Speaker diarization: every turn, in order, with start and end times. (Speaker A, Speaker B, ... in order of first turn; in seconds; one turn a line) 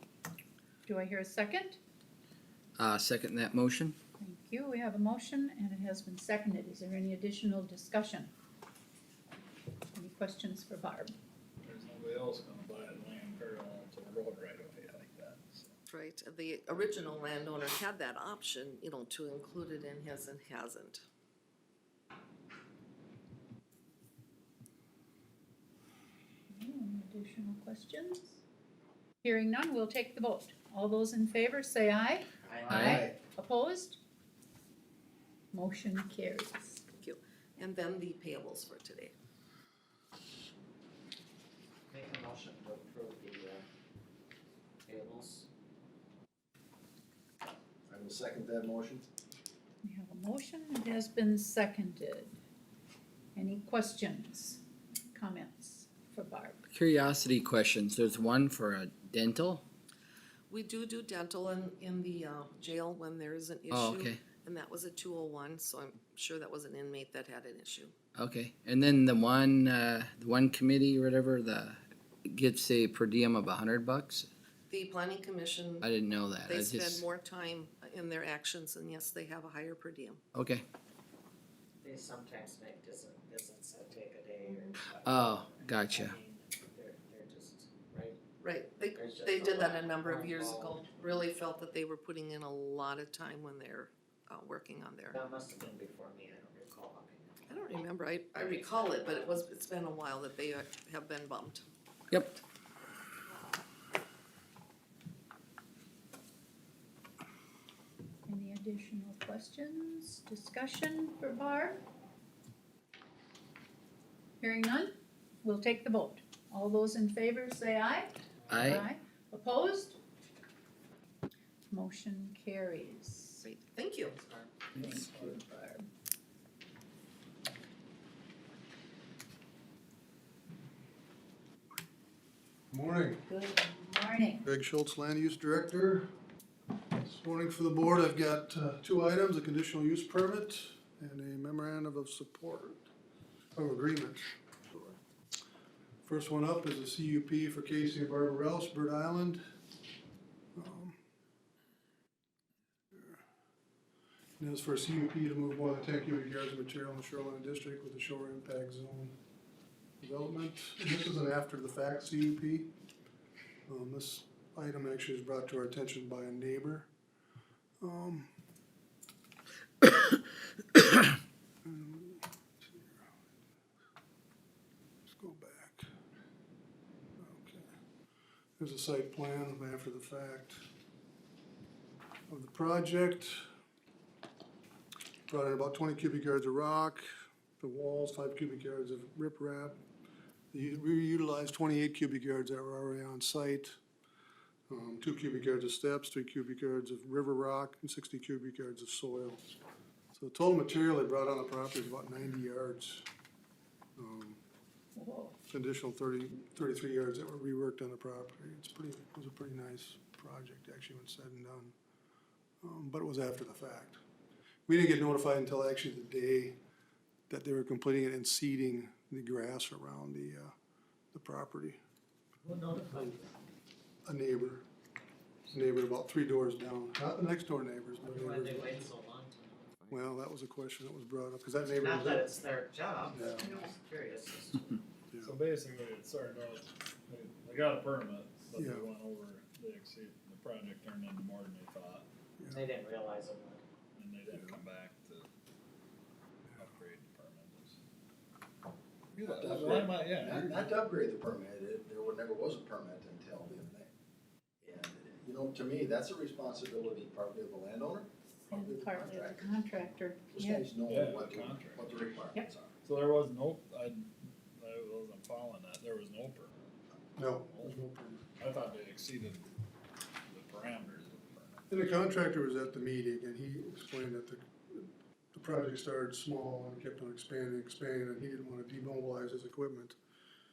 Speaker A: 0.9-1.8
Speaker B: 2.8-4.0
Speaker A: 4.2-8.3
Speaker A: 9.9-11.2
Speaker C: 11.6-15.8
Speaker D: 15.9-21.0
Speaker A: 26.5-28.4
Speaker A: 29.2-34.0
Speaker E: 32.5-32.8
Speaker F: 32.7-33.0
Speaker B: 32.7-33.0
Speaker A: 35.5-36.8
Speaker D: 37.0-39.1
Speaker E: 41.9-43.6
Speaker E: 44.9-45.5
Speaker F: 47.9-49.0
Speaker A: 49.8-52.4
Speaker A: 53.4-54.6
Speaker A: 55.1-56.6
Speaker B: 56.7-59.6
Speaker D: 60.5-68.0
Speaker B: 63.7-64.2
Speaker B: 68.2-74.3
Speaker D: 74.7-75.9
Speaker B: 75.8-77.1
Speaker D: 76.4-80.2
Speaker B: 80.3-80.7
Speaker E: 81.8-88.2
Speaker B: 85.0-86.1
Speaker D: 88.4-95.2
Speaker E: 88.9-91.2
Speaker E: 95.1-97.5
Speaker D: 97.5-101.7
Speaker E: 98.4-99.4
Speaker B: 102.1-102.4
Speaker A: 108.3-111.8
Speaker A: 114.4-114.9
Speaker A: 115.4-120.0
Speaker B: 118.5-118.8
Speaker A: 121.7-123.5
Speaker D: 123.4-124.2
Speaker E: 124.0-125.0
Speaker C: 124.8-125.5
Speaker A: 124.8-125.9
Speaker G: 132.7-133.2
Speaker A: 133.3-134.4
Speaker G: 134.4-136.1
Speaker G: 137.0-142.8
Speaker G: 143.6-145.0
Speaker G: 146.1-149.4
Speaker G: 150.6-151.0
Speaker G: 152.9-153.2
Speaker G: 154.4-159.2
Speaker G: 160.0-162.7
Speaker G: 163.7-166.9
Speaker G: 167.8-168.3
Speaker G: 171.7-173.0
Speaker G: 175.1-175.8
Speaker G: 177.2-177.7
Speaker G: 178.6-180.6
Speaker G: 182.3-183.4
Speaker G: 185.3-187.1
Speaker G: 187.6-189.8
Speaker G: 190.5-193.8
Speaker G: 194.7-199.4
Speaker G: 200.1-203.1
Speaker G: 204.0-204.4
Speaker A: 205.0-205.4
Speaker G: 205.5-211.8
Speaker G: 212.6-214.0
Speaker G: 214.7-216.6
Speaker G: 217.3-220.5
Speaker G: 221.1-221.8
Speaker E: 222.4-223.3
Speaker G: 224.1-224.6
Speaker G: 225.5-228.9
Speaker E: 228.0-230.0
Speaker G: 229.9-232.3
Speaker E: 231.8-234.8
Speaker G: 233.1-233.6
Speaker C: 235.2-242.1
Speaker G: 238.5-238.8
Speaker G: 242.4-242.7
Speaker E: 242.5-243.6
Speaker C: 244.0-245.3
Speaker G: 244.3-244.6
Speaker C: 246.6-247.8
Speaker C: 249.1-250.7
Speaker F: 249.2-253.9
Speaker F: 254.6-259.7
Speaker A: 258.5-260.7
Speaker F: 260.3-262.8
Speaker C: 260.8-262.0
Speaker C: 262.8-266.6
Speaker G: 267.2-268.2
Speaker C: 267.5-267.8
Speaker C: 268.4-269.4
Speaker C: 270.3-271.8
Speaker G: 271.7-280.0